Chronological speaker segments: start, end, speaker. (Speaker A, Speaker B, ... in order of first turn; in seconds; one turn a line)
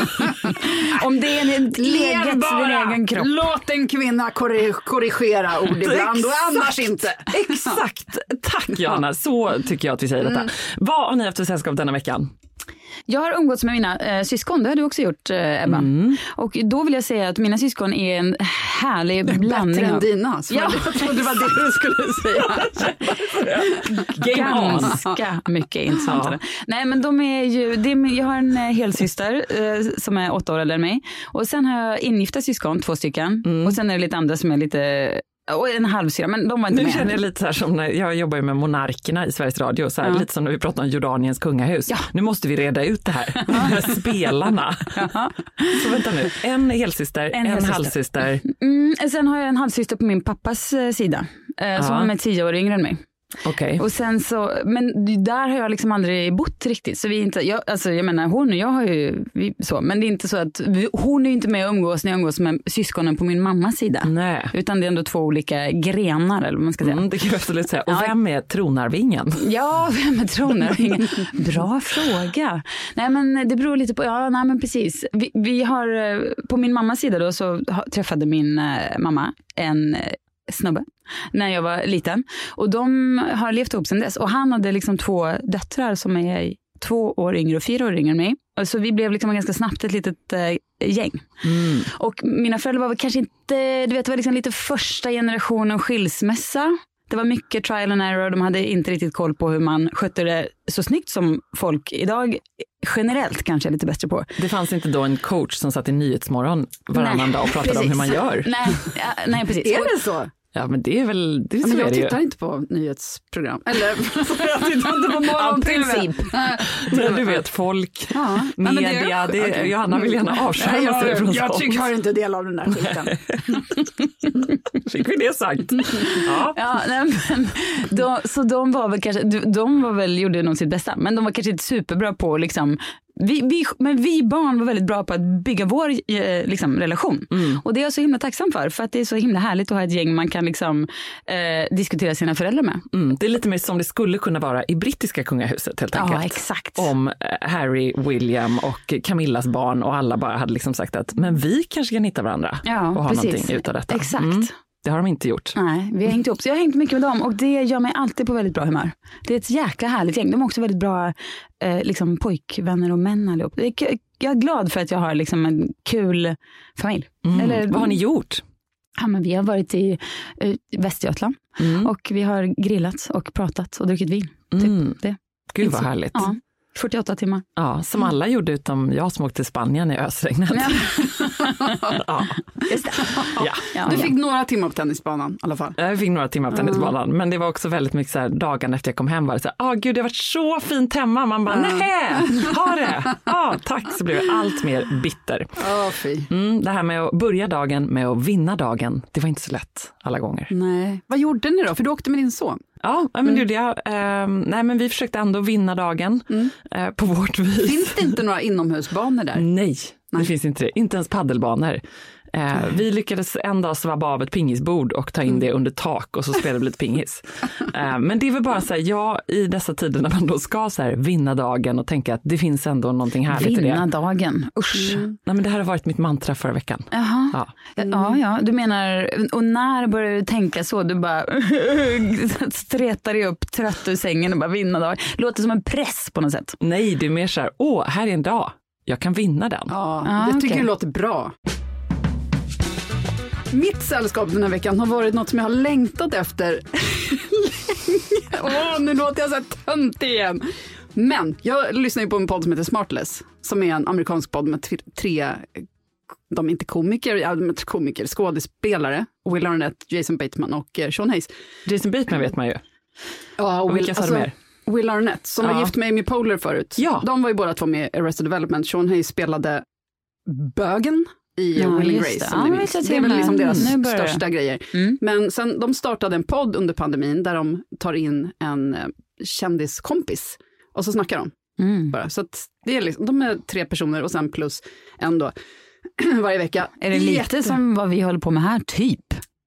Speaker A: 0.8-3.3
Speaker B: 1.8-7.8
Speaker C: 5.7-12.3
Speaker B: 10.2-10.5
Speaker A: 13.1-21.3
Speaker C: 15.7-16.2
Speaker B: 19.3-22.9
Speaker C: 22.5-25.0
Speaker A: 24.3-37.1
Speaker B: 24.3-25.2
Speaker C: 26.0-26.4
Speaker C: 33.5-33.8
Speaker C: 36.7-45.0
Speaker A: 45.0-45.8
Speaker C: 45.7-48.4
Speaker A: 47.3-53.0
Speaker C: 51.8-52.1
Speaker C: 53.5-53.8
Speaker A: 53.8-67.0
Speaker C: 64.0-64.5
Speaker C: 66.8-69.4
Speaker A: 69.4-91.3
Speaker C: 91.4-91.9
Speaker A: 91.9-104.3
Speaker C: 104.4-108.5
Speaker A: 107.0-109.9
Speaker B: 109.5-110.3
Speaker C: 110.5-112.2
Speaker B: 111.6-117.4
Speaker C: 114.1-115.5
Speaker A: 115.4-116.3
Speaker C: 116.7-121.9
Speaker B: 118.1-123.6
Speaker C: 122.7-123.9
Speaker C: 124.7-126.6
Speaker A: 126.5-142.8
Speaker C: 137.3-137.6
Speaker C: 142.9-155.6
Speaker A: 145.9-146.9
Speaker A: 152.7-154.5
Speaker A: 155.6-168.0
Speaker C: 167.2-168.4
Speaker A: 169.0-177.4
Speaker C: 171.6-171.9
Speaker C: 174.6-175.0
Speaker C: 175.5-176.3
Speaker C: 177.6-181.0
Speaker A: 180.5-181.8
Speaker C: 182.0-182.4
Speaker A: 182.7-184.1
Speaker B: 183.0-185.8
Speaker C: 183.4-184.1
Speaker C: 185.8-195.6
Speaker B: 186.5-186.9
Speaker B: 191.5-192.6
Speaker B: 195.6-196.3
Speaker C: 196.3-200.5
Speaker B: 200.5-202.6
Speaker C: 202.8-208.2
Speaker B: 207.6-209.5
Speaker C: 209.3-211.8
Speaker C: 212.3-223.8
Speaker A: 223.3-225.1
Speaker B: 224.8-225.2
Speaker C: 225.3-227.5
Speaker A: 226.9-236.6
Speaker B: 227.8-228.2
Speaker C: 236.6-239.7
Speaker B: 239.7-241.3
Speaker A: 240.0-240.7
Speaker B: 243.5-250.4
Speaker B: 250.9-255.7
Speaker B: 256.3-261.3
Speaker C: 261.7-262.6
Speaker B: 263.4-269.6
Speaker C: 263.7-264.3
Speaker C: 265.4-265.7
Speaker C: 266.8-267.1
Speaker B: 270.3-281.3
Speaker A: 271.6-275.0
Speaker C: 273.4-273.7
Speaker A: 281.6-282.0
Speaker B: 281.9-285.3
Speaker B: 286.0-287.6
Speaker A: 286.8-289.2